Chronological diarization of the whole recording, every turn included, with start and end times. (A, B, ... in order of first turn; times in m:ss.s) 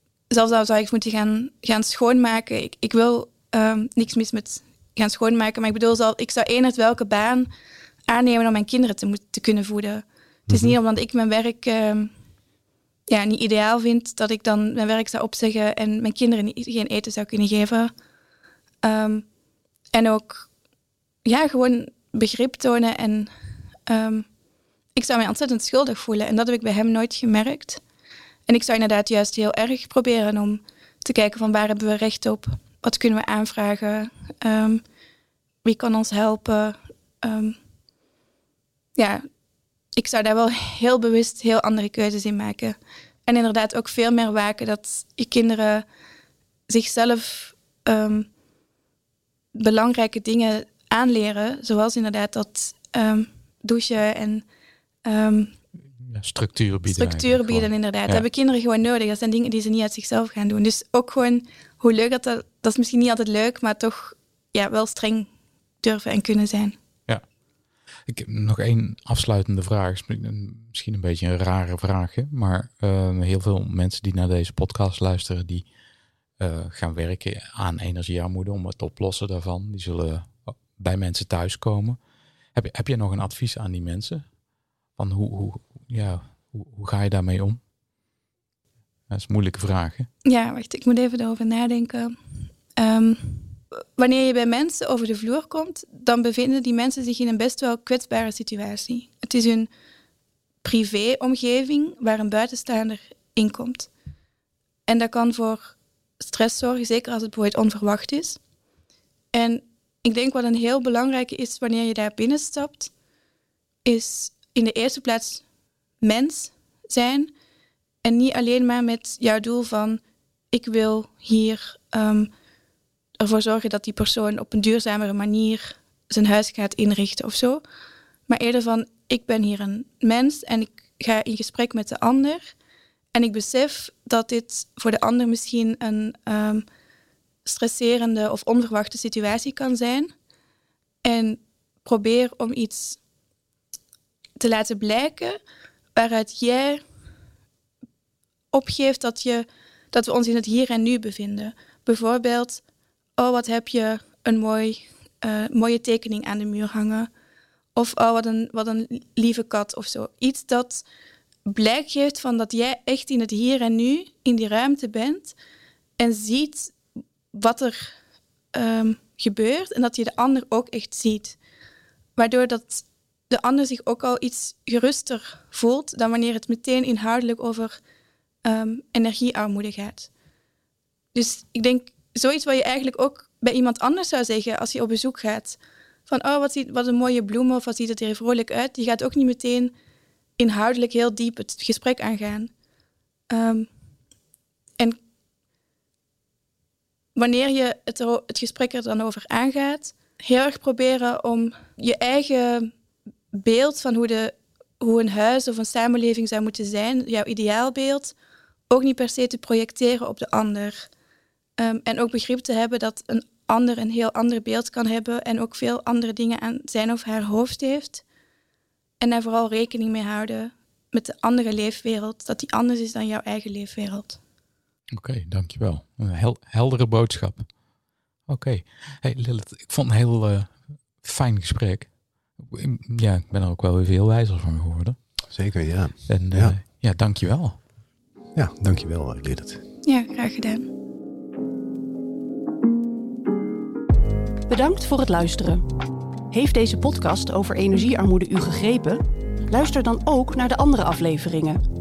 0:00.3-0:07.5 A
0:08.1-0:12.1 A
0:10.5-0:10.8 B
0:13.1-0:17.9 A
0:18.8-0:19.3 A
0:19.9-0:20.5 A
0:21.2-0:23.3 A
0:23.9-0:24.3 A
0:25.0-0:27.8 A
0:28.5-0:34.8 A
0:35.6-0:37.6 A
0:39.0-0:39.2 A
0:39.9-0:45.8 A
0:46.7-0:48.3 A
0:49.5-0:54.5 A
0:55.0-0:55.5 A
0:56.0-0:58.2 C
0:56.9-1:05.3 A
1:05.8-1:06.8 A
1:08.1-1:15.7 C
1:16.4-1:22.0 C
1:22.5-1:24.3 C
1:25.0-1:27.6 C
1:29.1-1:30.1 C
1:30.2-1:32.2 A
1:32.8-1:39.7 A
1:40.6-1:43.9 A
1:44.9-1:48.4 A
1:49.3-1:52.9 A
1:53.8-1:55.4 A
1:56.0-1:57.3 A
1:58.0-2:00.0 A
2:00.5-2:02.3 A
2:03.2-2:07.6 A
2:08.3-2:12.6 A
2:13.1-2:16.6 A
2:17.4-2:20.1 A
2:21.0-2:23.0 A
2:24.4-2:25.4 A
2:26.0-2:26.8 A
2:28.5-2:32.6 A
2:33.2-2:37.1 A
2:37.8-2:40.8 A
2:41.5-2:45.4 A
2:46.0-2:46.8 A
2:47.3-2:48.0 A
2:48.5-2:51.4 A
2:52.2-2:57.8 A
2:58.4-3:00.1 A
3:01.1-3:09.7 A
3:10.4-3:12.5 A
3:13.3-3:13.7 A
3:17.2-3:22.7 A
3:23.3-3:28.2 A
3:28.7-3:30.9 A
3:31.6-3:38.0 A
3:39.0-3:44.2 A
3:44.9-3:47.5 C
3:48.3-3:55.0 C
3:55.3-3:56.6 B
3:56.1-3:57.6 C
3:58.4-3:59.6 B
3:59.8-4:00.7 A
4:04.5-4:05.6 D
4:06.3-4:11.6 D